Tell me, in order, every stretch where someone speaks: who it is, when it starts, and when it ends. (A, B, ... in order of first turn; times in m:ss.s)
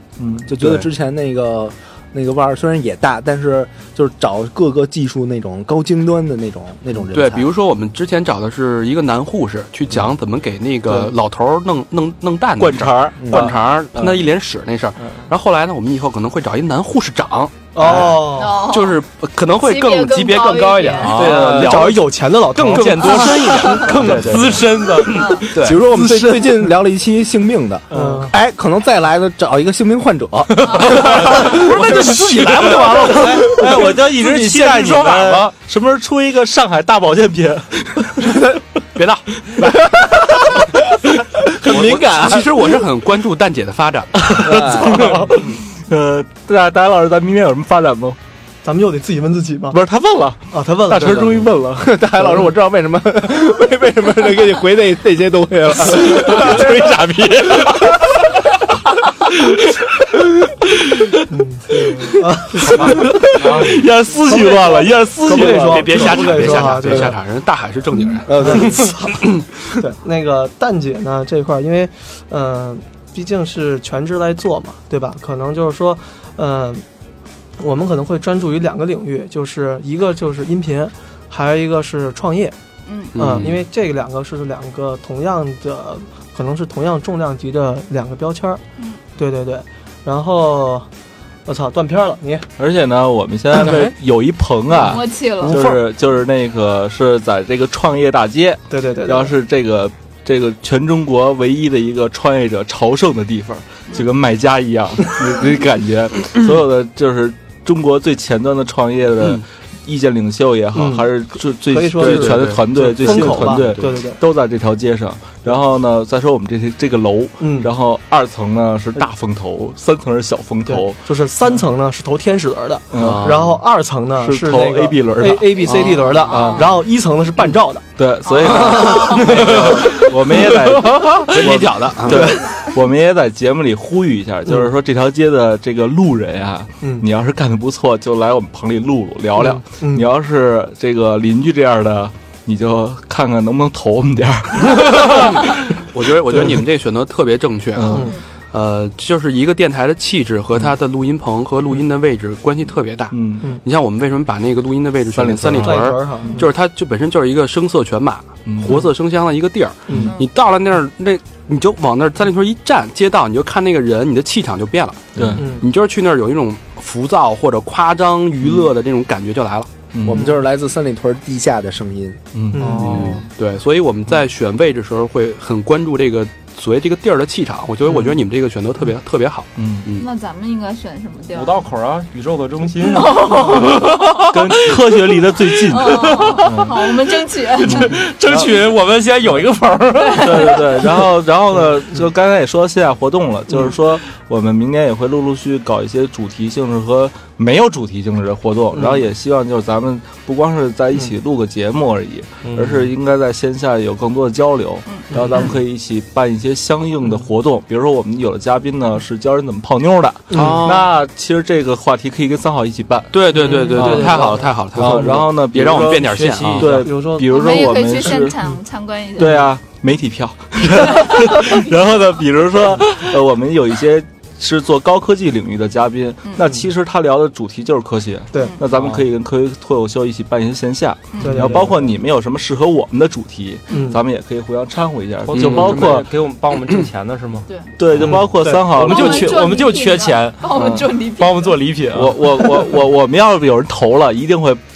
0:00.2-0:00.5 A
0:00.4-0:07.5 B
0:00.6-0:00.8 C
0:07.1-0:25.8 C
0:12.6-0:13.4 D
0:13.3-0:14.2 A
0:17.7-0:18.6 E
0:18.3-0:19.0 F
0:19.6-0:21.2 F
0:21.0-0:21.9 D
0:21.4-0:24.5 E
0:22.6-0:25.4 D
0:23.6-0:23.9 F
0:25.1-0:25.5 F
0:25.6-0:33.4 B
0:25.8-0:26.5 E
0:27.9-0:28.3 E
0:30.7-0:35.5 D
0:32.6-0:38.4 A
0:38.9-0:39.3 C
0:39.6-0:40.8 B
0:41.4-0:42.8 B
0:41.6-0:44.7 C
0:44.2-0:48.2 A
0:44.3-0:45.3 B
0:48.6-0:49.8 E
0:49.7-0:52.0 A
0:50.5-0:51.5 E
0:51.8-0:58.1 B
0:56.1-0:57.8 A
0:59.4-0:59.7 A
1:00.6-1:01.2 A
1:01.3-1:03.6 E
1:01.8-1:07.1 A
1:04.3-1:07.1 E
1:05.2-1:09.3 C
1:08.3-1:08.9 B
1:08.3-1:16.8 E
1:17.6-1:22.5 E
1:22.9-1:23.2 F
1:23.1-1:23.6 C
1:23.1-1:28.6 E
1:29.2-1:30.9 E
1:31.4-1:32.5 E
1:32.6-2:01.0 A
1:33.6-1:33.9 D
1:34.7-1:35.6 F
1:38.7-1:39.4 E
1:50.7-1:54.2 E
1:52.0-1:53.9 C
1:57.4-1:57.7 E
2:00.6-2:07.8 E
2:02.9-2:03.6 A
2:02.9-2:03.6 C
2:04.2-2:06.7 A
2:05.6-2:06.2 C
2:06.0-2:06.7 F
2:08.0-2:25.6 A
2:08.2-2:09.6 F
2:09.4-2:09.9 E
2:10.8-2:11.3 D
2:11.2-2:12.3 C
2:12.0-2:12.4 E
2:16.8-2:17.1 E
2:19.4-2:20.1 E
2:25.0-2:49.7 C
2:27.7-2:28.1 A
2:27.9-2:28.2 F
2:33.1-2:33.5 A
2:35.1-2:36.4 A
2:35.6-2:36.5 E
2:38.5-2:38.9 A
2:39.9-2:40.1 E
2:40.0-2:40.2 F
2:45.1-2:45.6 A
2:45.4-2:45.6 E
2:49.9-2:50.3 A
2:50.0-2:52.2 B
2:52.3-2:53.2 A
2:52.5-2:53.2 E
2:52.6-2:53.1 D
2:52.7-3:00.1 C
2:57.9-2:58.2 A
2:59.6-2:59.9 A
2:59.9-3:01.6 F
3:01.3-3:06.5 D
3:02.9-3:04.2 F
3:04.3-3:08.7 A
3:05.7-3:07.9 F
3:07.6-3:10.6 D
3:10.0-3:10.8 F
3:10.1-3:38.5 A
3:18.7-3:19.1 E
3:22.4-3:22.9 D
3:24.9-3:25.5 F
3:25.1-3:25.4 E
3:30.3-3:30.6 E
3:30.3-3:30.9 B
3:33.1-3:36.7 C
3:33.3-3:34.8 E
3:36.0-3:36.8 D
3:36.8-3:38.1 E
3:37.3-3:39.4 F
3:39.2-3:56.1 A
3:40.9-3:41.6 F
3:51.1-3:51.4 F
3:51.2-3:51.9 E
3:53.7-3:54.0 E
3:55.3-3:57.4 D
3:55.3-3:56.0 C
3:57.8-3:59.5 A
3:58.0-3:58.7 E
3:58.7-4:02.5 D
3:58.7-4:01.7 F
4:00.6-4:00.9 A
4:01.9-4:04.6 A